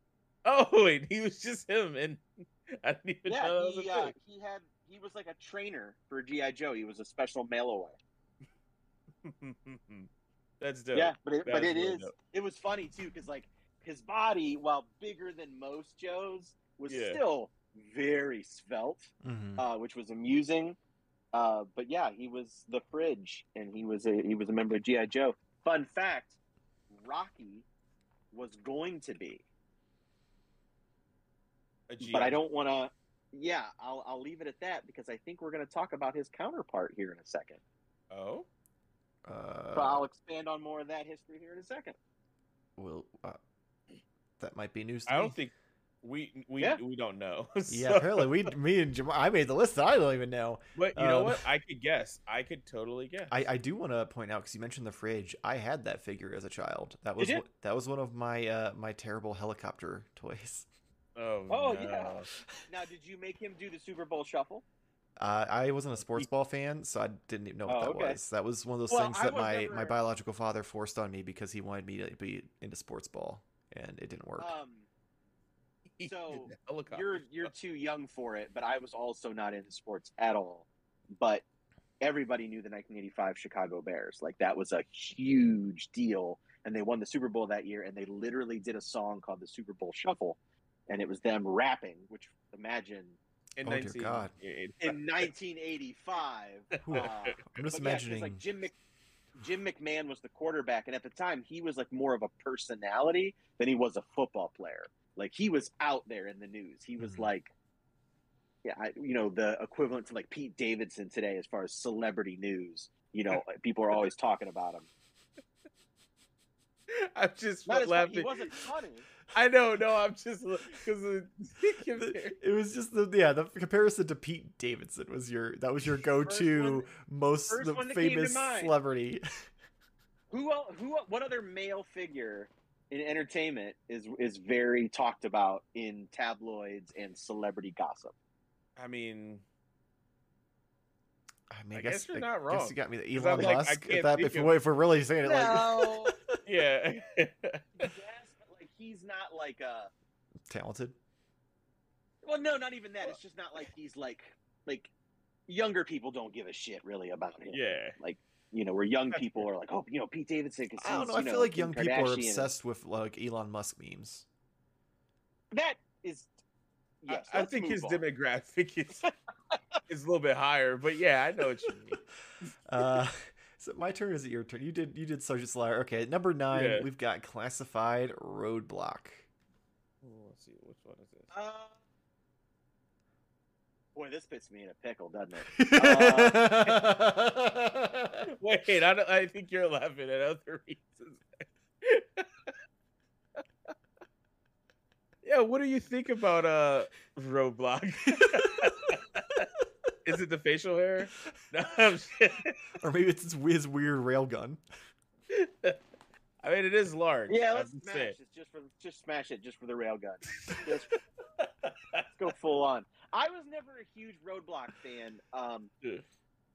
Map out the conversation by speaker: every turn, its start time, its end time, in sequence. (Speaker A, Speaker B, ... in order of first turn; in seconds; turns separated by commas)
Speaker A: 0.4-4.1, Speaker B: 3.2-8.0, Speaker A: 9.2-10.1, Speaker A: 10.6-12.1, Speaker B: 10.9-20.8, Speaker A: 16.9-17.2, Speaker C: 19.2-19.6, Speaker B: 21.3-26.4, Speaker B: 26.9-27.6, Speaker B: 28.3-29.4, Speaker A: 31.9-32.4, Speaker B: 32.0-37.6, Speaker A: 38.1-38.5, Speaker C: 39.2-40.0, Speaker B: 39.7-42.0, Speaker C: 42.8-43.4, Speaker C: 44.4-45.4, Speaker A: 45.1-48.5, Speaker C: 47.7-51.4, Speaker A: 50.8-53.4, Speaker C: 53.3-60.7, Speaker A: 61.1-62.3, Speaker B: 61.5-64.6, Speaker C: 65.2-74.5, Speaker B: 67.7-68.2, Speaker B: 68.9-70.0, Speaker B: 74.4-74.9, Speaker A: 76.0-77.5, Speaker B: 76.0-81.4, Speaker B: 82.0-90.4, Speaker B: 90.9-93.2, Speaker A: 93.6-95.3, Speaker C: 93.6-94.3, Speaker B: 94.8-98.7, Speaker A: 96.8-97.6, Speaker C: 96.8-98.4, Speaker B: 99.3-107.5, Speaker C: 107.0-107.3, Speaker B: 108.6-114.9, Speaker A: 116.9-118.7, Speaker B: 117.7-119.1, Speaker A: 119.3-122.4, Speaker C: 122.0-129.2, Speaker B: 126.2-126.9, Speaker B: 127.5-128.7, Speaker B: 130.3-138.1, Speaker A: 138.8-139.4, Speaker C: 141.5-146.4, Speaker A: 141.7-144.5, Speaker B: 145.2-146.1, Speaker A: 146.4-147.9, Speaker B: 147.8-149.9, Speaker C: 150.5-150.9, Speaker B: 152.2-154.9, Speaker B: 155.5-162.5, Speaker A: 157.5-158.0, Speaker A: 159.1-159.4, Speaker C: 160.8-164.2, Speaker B: 165.5-166.3, Speaker B: 167.0-168.0, Speaker A: 167.1-169.1, Speaker A: 169.9-172.0, Speaker C: 172.7-179.2, Speaker A: 176.5-176.9, Speaker A: 180.0-181.3, Speaker B: 181.3-181.8, Speaker B: 183.9-186.5, Speaker C: 185.5-188.3, Speaker A: 188.3-192.5, Speaker A: 195.2-199.5, Speaker C: 198.2-198.6, Speaker A: 200.0-202.6, Speaker C: 202.8-204.6, Speaker A: 205.3-205.8, Speaker A: 206.4-208.2, Speaker B: 207.3-210.9, Speaker A: 211.4-212.1, Speaker B: 212.2-215.7